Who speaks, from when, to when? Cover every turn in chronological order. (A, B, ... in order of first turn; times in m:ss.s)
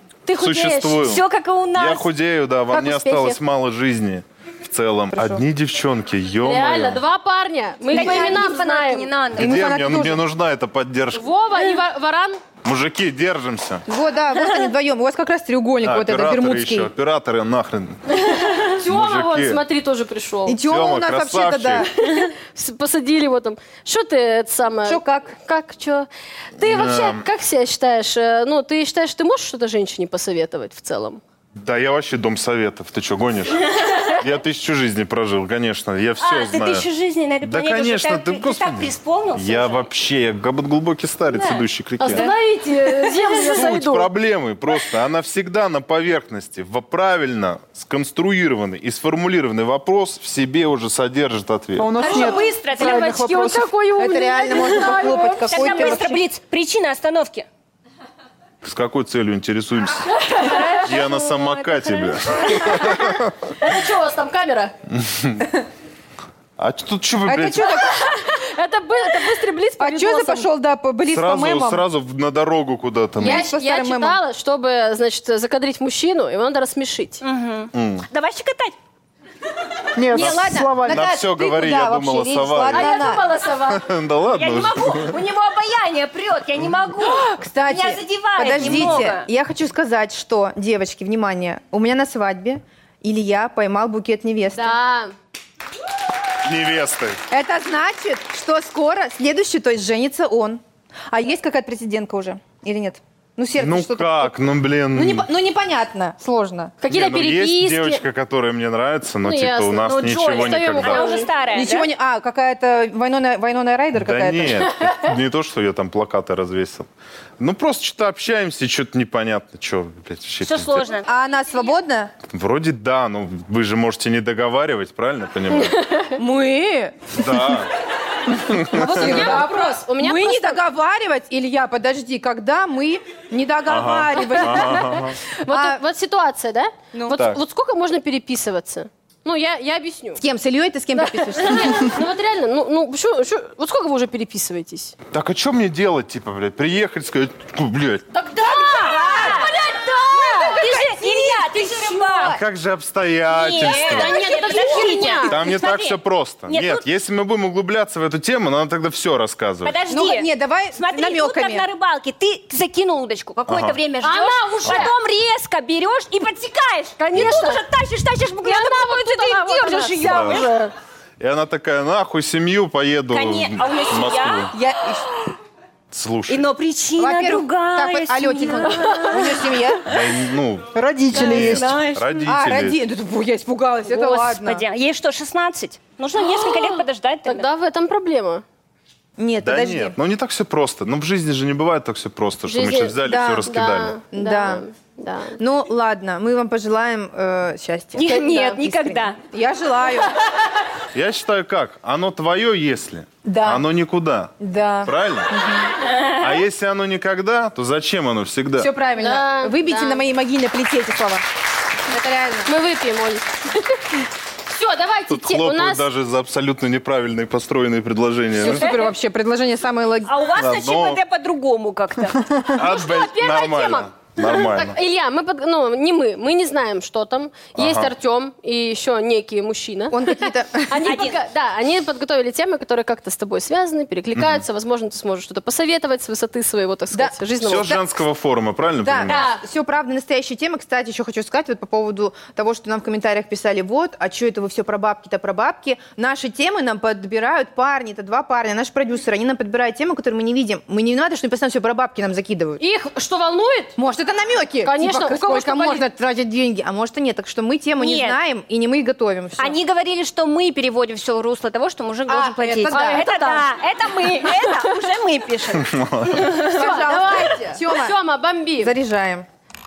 0:00.2-0:01.0 A
0:00.4-0:01.2 B
0:01.0-0:02.1 C
0:01.7-0:07.0 B
0:02.7-0:03.4 A
0:05.1-0:05.4 D
0:06.4-0:09.1 A
0:07.9-0:09.5 C
0:07.9-0:08.4 D
0:09.4-0:10.2 D
0:09.4-0:11.2 B
0:11.1-0:12.4 A
0:12.6-0:13.8 B
0:13.9-0:16.9 D
0:15.8-0:18.0 B
0:18.1-0:20.6 A
0:18.8-0:19.6 B
0:20.5-0:22.3 D
0:20.6-0:21.9 B
0:22.0-0:31.2 A
0:24.8-0:25.3 D
0:26.6-0:27.2 B
0:31.6-0:36.9 B
0:36.2-0:39.9 C
0:37.4-0:42.3 B
0:41.3-0:42.3 C
0:42.0-0:44.1 A
0:43.3-0:52.0 B
0:51.8-0:53.7 E
0:52.0-0:53.0 C
0:52.0-0:56.1 A
0:54.0-0:56.2 D
0:55.5-0:57.4 C
0:58.6-1:03.3 B
1:00.0-1:01.2 A
1:02.4-1:04.7 A
1:04.9-1:05.5 B
1:06.6-1:07.8 B
1:07.2-1:08.0 D
1:07.7-1:10.5 A
1:09.8-1:11.8 D
1:11.0-1:13.4 B
1:13.2-1:14.2 D
1:13.2-1:17.2 A
1:17.2-1:18.8 C
1:17.7-1:18.0 B
1:20.0-1:21.1 E
1:20.1-1:23.2 D
1:20.1-1:23.1 B
1:22.7-1:23.9 A
1:23.6-1:25.1 B
1:24.3-1:29.3 C
1:27.0-1:34.8 D
1:34.5-1:35.1 A
1:36.4-1:37.2 B
1:37.3-1:44.4 D
1:43.6-1:45.3 B
1:44.9-1:46.8 D
1:46.8-1:48.0 A
1:46.9-1:51.2 B
1:49.2-1:51.3 A
1:49.8-1:51.9 C
1:51.4-1:54.6 D
1:54.0-1:56.9 B
1:54.8-1:55.0 A
1:57.4-2:00.9 B
2:00.4-2:01.1 C
2:01.0-2:02.1 D
2:02.3-2:05.8 B
2:05.5-2:06.2 A
2:06.2-2:07.1 D
2:07.2-2:07.7 B
2:08.3-2:09.4 B
2:08.7-2:15.8 D
2:08.8-2:10.6 A
2:13.6-2:15.2 B
2:14.3-2:20.2 A
2:17.1-2:17.4 B
2:20.2-2:22.0 D
2:20.9-2:24.9 A
2:25.1-2:28.1 B
2:28.1-2:30.6 A
2:28.4-2:32.4 C
2:29.0-2:29.5 D
2:30.1-2:32.4 D
2:32.2-2:34.4 B
2:33.3-2:36.8 C
2:33.7-2:35.4 A
2:34.6-2:35.2 D
2:35.3-2:39.8 B
2:39.6-2:50.5 C
2:39.9-2:41.7 D
2:43.5-2:43.8 B
2:44.0-2:44.9 A
2:47.0-2:47.6 A
2:47.1-2:47.5 B
2:48.4-2:50.7 A
2:50.0-2:50.4 B
2:51.2-2:54.5 B
2:53.1-2:55.4 C
2:54.5-2:55.1 D
2:55.9-2:56.4 B
2:56.3-2:59.5 C
2:57.0-2:59.9 D
2:59.8-3:02.8 B
3:00.7-3:01.8 E
3:01.1-3:02.3 C
3:02.2-3:04.6 D
3:03.8-3:07.4 C
3:06.2-3:08.4 A
3:09.2-3:10.0 D
3:09.4-3:14.0 B
3:12.4-3:15.4 A
3:13.0-3:13.5 D
3:14.1-3:14.6 D
3:15.4-3:20.1 D
3:17.9-3:19.2 C
3:20.9-3:24.3 B
3:23.2-3:23.6 D
3:24.4-3:25.7 D
3:24.8-3:25.3 B
3:25.9-3:26.2 C
3:26.2-3:28.7 B
3:28.6-3:31.2 D
3:29.0-3:30.0 A
3:31.9-3:32.5 D
3:32.4-3:35.8 A
3:35.1-3:38.7 B
3:38.3-3:40.1 D
3:38.5-3:38.9 A
3:40.0-3:42.3 C
3:40.4-3:41.0 B
3:42.5-3:44.8 B
3:42.6-3:57.8 A
3:47.5-3:47.9 B
3:49.9-3:50.8 D
3:50.8-3:51.1 C
3:54.2-3:54.4 B
3:56.9-3:57.2 D
3:57.4-3:59.3 B
3:58.8-4:12.6 D
3:59.1-3:59.4 A
4:12.6-4:13.8 A
4:13.8-4:19.6 D
4:14.6-4:15.8 A
4:17.8-4:18.2 C
4:19.4-4:26.8 C
4:22.1-4:23.0 D
4:22.7-4:23.5 A
4:24.2-4:24.7 A
4:25.6-4:26.3 B
4:26.1-4:28.7 A
4:26.2-4:28.0 D
4:28.6-4:29.2 D